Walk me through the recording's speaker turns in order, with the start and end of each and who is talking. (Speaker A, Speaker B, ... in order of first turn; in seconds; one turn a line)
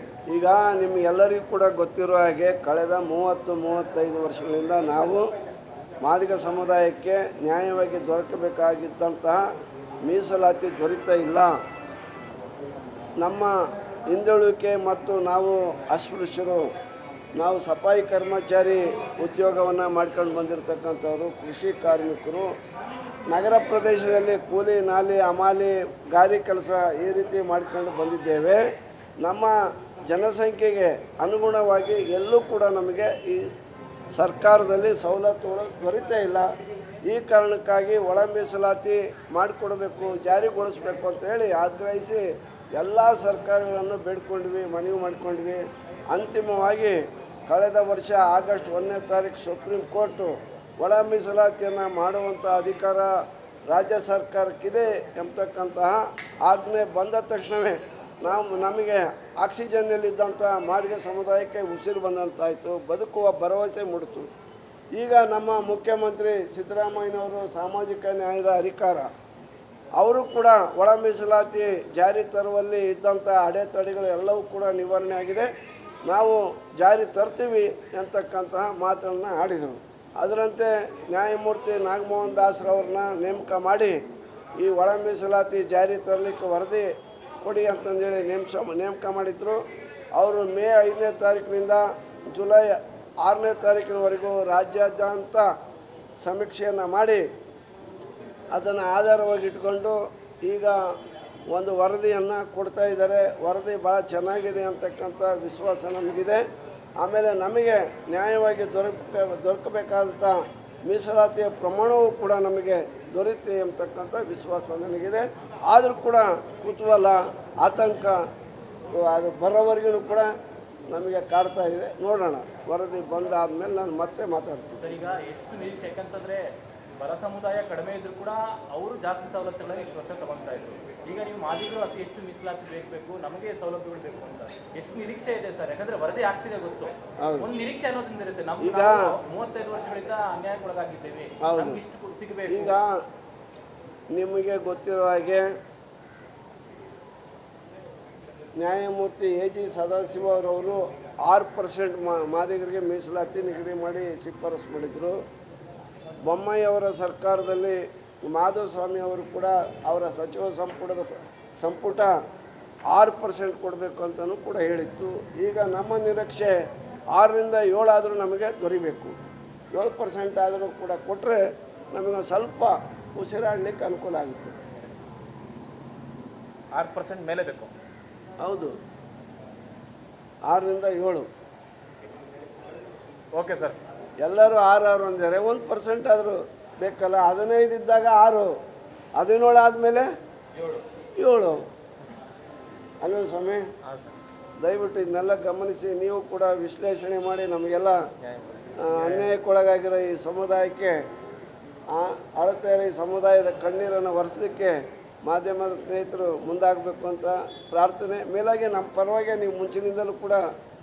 Speaker A: 0.3-5.2
Speaker A: 6.0-9.4
Speaker A: 10.0-11.5
Speaker A: 13.2-13.5
Speaker A: 14.1-16.7
Speaker A: 17.4-22.5
Speaker A: 23.3-28.6
Speaker A: 29.2-29.5
Speaker A: 30.1-33.5
Speaker A: 34.1-36.5
Speaker A: 37.1-42.2
Speaker A: 42.7-53.1
Speaker A: 53.7-64.3
Speaker A: 64.9-69.1
Speaker A: 70.0-75.5
Speaker A: 76.1-84.0
Speaker A: 84.6-86.9
Speaker A: 87.4-89.6
Speaker A: 90.1-95.5
Speaker A: 96.2-97.2
Speaker A: 98.5-100.8
Speaker A: 101.5-106.4
Speaker A: 107.0-118.2
Speaker A: 118.9-120.3
Speaker A: 120.9-124.9
Speaker B: 124.8-126.4
Speaker B: 127.0-142.7
Speaker A: 137.2-137.5
Speaker A: 138.6-139.1
Speaker A: 141.4-141.8
Speaker A: 142.5-143.0
Speaker A: 144.1-145.4
Speaker A: 148.6-155.2
Speaker A: 156.2-162.2
Speaker A: 162.9-166.6
Speaker A: 167.1-169.2
Speaker A: 169.7-171.4
Speaker A: 171.9-174.5
Speaker C: 176.7-177.7
Speaker A: 178.4-178.7
Speaker A: 180.5-181.3
Speaker C: 183.3-183.8
Speaker A: 184.2-188.5
Speaker A: 189.2-190.1
Speaker B: 190.6-190.8
Speaker A: 191.2-191.6
Speaker A: 193.0-193.6
Speaker C: 193.8-194.1
Speaker A: 194.6-198.0
Speaker C: 198.2-199.3
Speaker A: 198.8-201.0
Speaker A: 201.9-210.4